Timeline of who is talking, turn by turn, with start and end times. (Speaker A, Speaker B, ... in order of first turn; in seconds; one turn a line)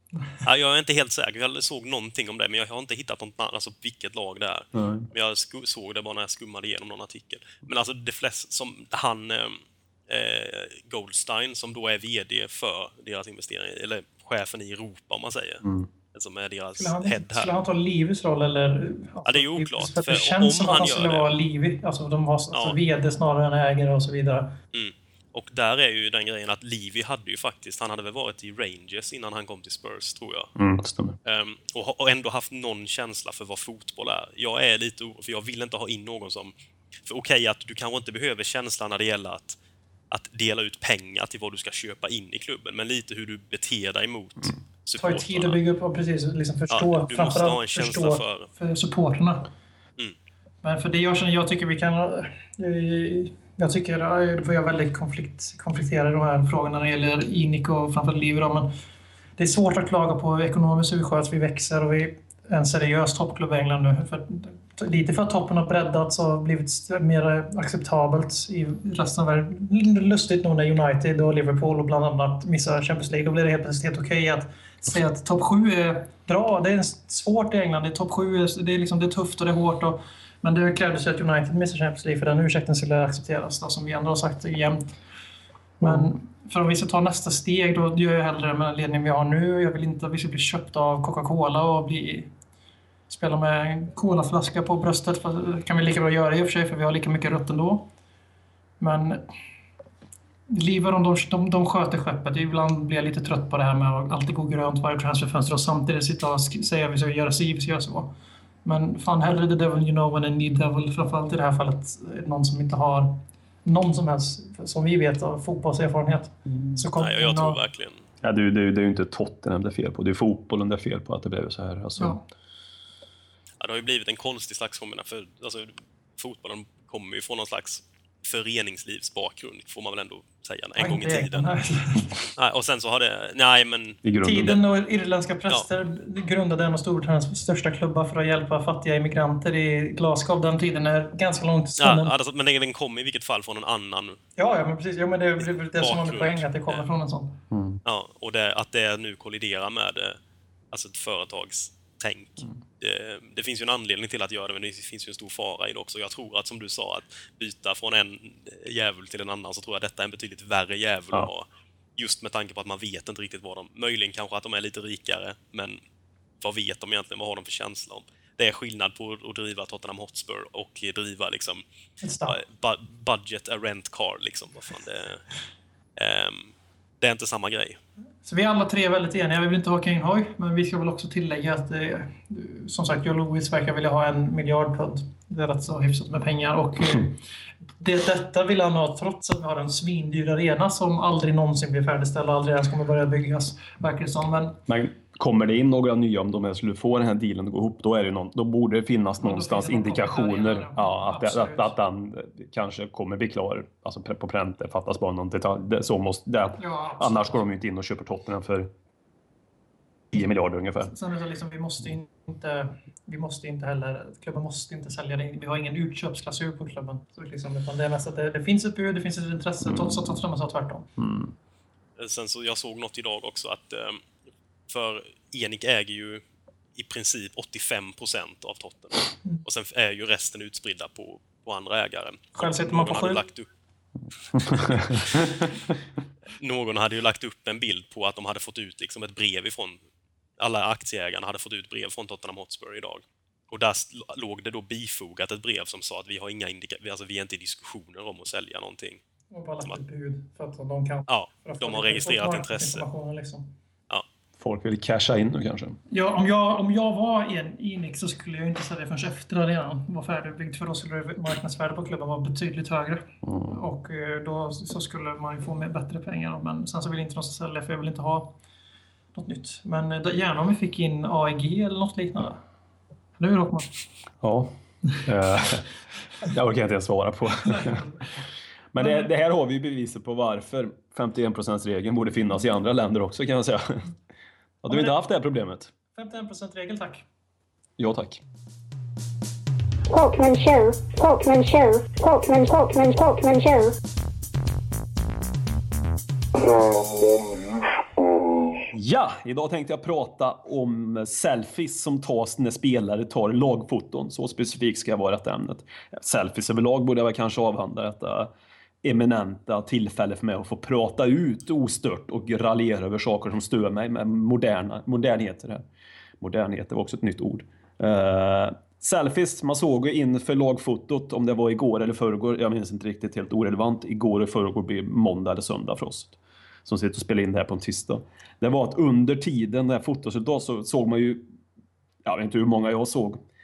Speaker A: 0.4-17.5
Speaker B: 4.7-5.1
Speaker C: 16.8-24.5
Speaker A: 19.2-21.3
Speaker A: 22.5-22.8
Speaker A: 24.7-30.5
Speaker B: 30.6-31.1
Speaker A: 31.2-36.5
Speaker A: 37.0-39.6
Speaker A: 40.1-45.6
Speaker C: 45.0-49.5
Speaker A: 46.7-48.5
Speaker C: 50.6-58.7
Speaker C: 59.4-84.8
Speaker B: 85.8-86.1
Speaker C: 85.8-92.3
Speaker C: 93.1-97.9
Speaker C: 98.8-99.2
Speaker C: 100.5-108.1
Speaker C: 108.6-117.6
Speaker A: 117.0-118.0
Speaker B: 118.2-122.2
Speaker C: 122.0-122.2
Speaker A: 123.6-131.5
Speaker C: 130.8-132.3
Speaker A: 132.4-134.0
Speaker B: 134.0-134.6
Speaker C: 134.2-142.1
Speaker A: 141.8-144.2
Speaker C: 144.4-147.4
Speaker A: 145.7-146.8
Speaker B: 147.5-147.8
Speaker A: 147.8-150.2
Speaker A: 150.7-165.8
Speaker A: 166.4-171.6
Speaker C: 172.0-172.4
Speaker A: 172.3-175.2
Speaker A: 176.0-177.8
Speaker C: 178.2-187.2
Speaker C: 187.8-194.6
Speaker B: 194.7-208.7
Speaker C: 199.2-201.7
Speaker C: 206.6-207.4
Speaker B: 210.1-210.9
Speaker C: 210.9-220.9
Speaker B: 221.0-221.3
Speaker A: 222.0-224.0
Speaker A: 224.7-226.2
Speaker A: 226.7-233.5
Speaker C: 232.3-233.2
Speaker B: 234.3-234.9
Speaker A: 234.4-235.2
Speaker A: 236.4-239.8
Speaker A: 240.4-249.0
Speaker C: 249.3-253.5
Speaker A: 251.1-252.8
Speaker B: 254.4-255.8
Speaker C: 255.9-268.3
Speaker B: 263.2-263.6
Speaker C: 269.1-272.4
Speaker C: 273.2-273.8
Speaker B: 274.2-274.5
Speaker B: 275.0-275.6
Speaker B: 276.2-277.8
Speaker C: 277.3-278.2
Speaker B: 278.7-283.9
Speaker C: 278.8-279.1
Speaker B: 284.6-285.7
Speaker C: 284.7-284.9
Speaker C: 285.9-287.0
Speaker B: 287.8-288.2
Speaker D: 289.9-293.7
Speaker B: 298.7-308.3
Speaker B: 308.8-315.6
Speaker B: 316.2-331.2
Speaker B: 332.0-333.2